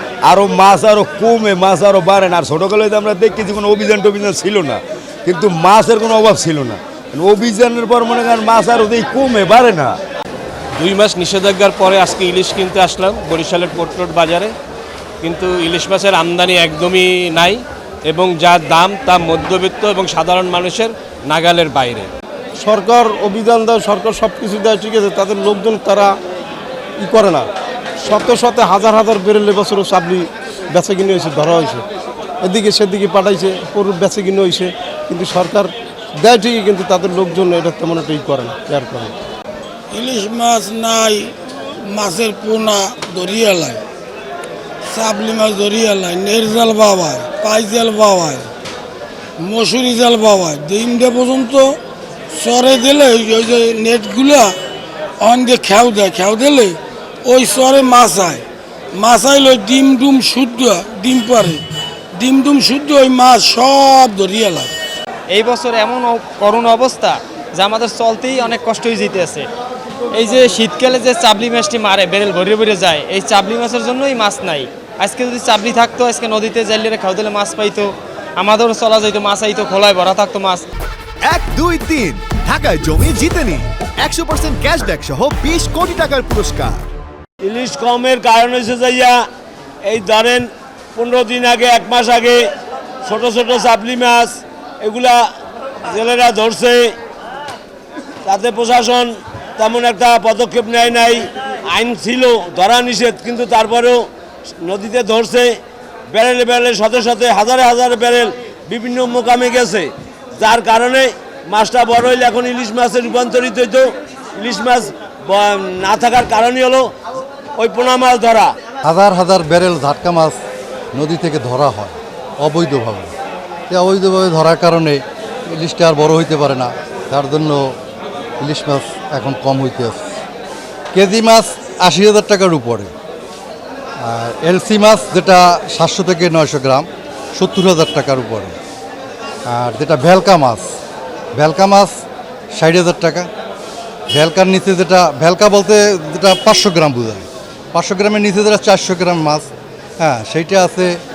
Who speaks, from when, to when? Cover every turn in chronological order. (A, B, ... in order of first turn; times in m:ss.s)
0:00.2-0:09.9 A
0:10.8-0:14.5 B
0:15.2-0:22.1 B
0:22.6-0:26.1 C
0:27.0-0:27.5 C
0:28.0-0:31.8 C
0:32.4-0:39.1 C
0:39.9-0:43.8 D
0:44.9-0:48.5 D
0:49.4-0:51.8 D
0:52.3-0:54.6 D
0:55.2-0:58.4 D
0:58.9-1:01.6 D
1:02.1-1:04.7 D
1:05.3-1:09.5 E
1:10.1-1:20.6 E
1:21.2-1:26.9 F
1:27.4-1:29.2 G
1:29.8-1:32.4 G
1:33.0-1:35.2 G
1:35.9-1:36.9 G
1:38.2-1:44.1 G
1:44.6-1:45.6 G
1:46.1-1:56.9 G
1:57.6-1:58.5 G
1:58.8-2:00.4 H
2:00.9-2:03.1 H
2:03.7-2:07.8 H
2:08.4-2:10.1 H
2:10.9-2:12.9 H
2:14.0-2:18.6 H
2:19.4-2:20.6 H
2:21.3-2:22.0 H
2:22.5-2:23.3 H
2:24.1-2:29.5 H
2:30.0-2:31.0 H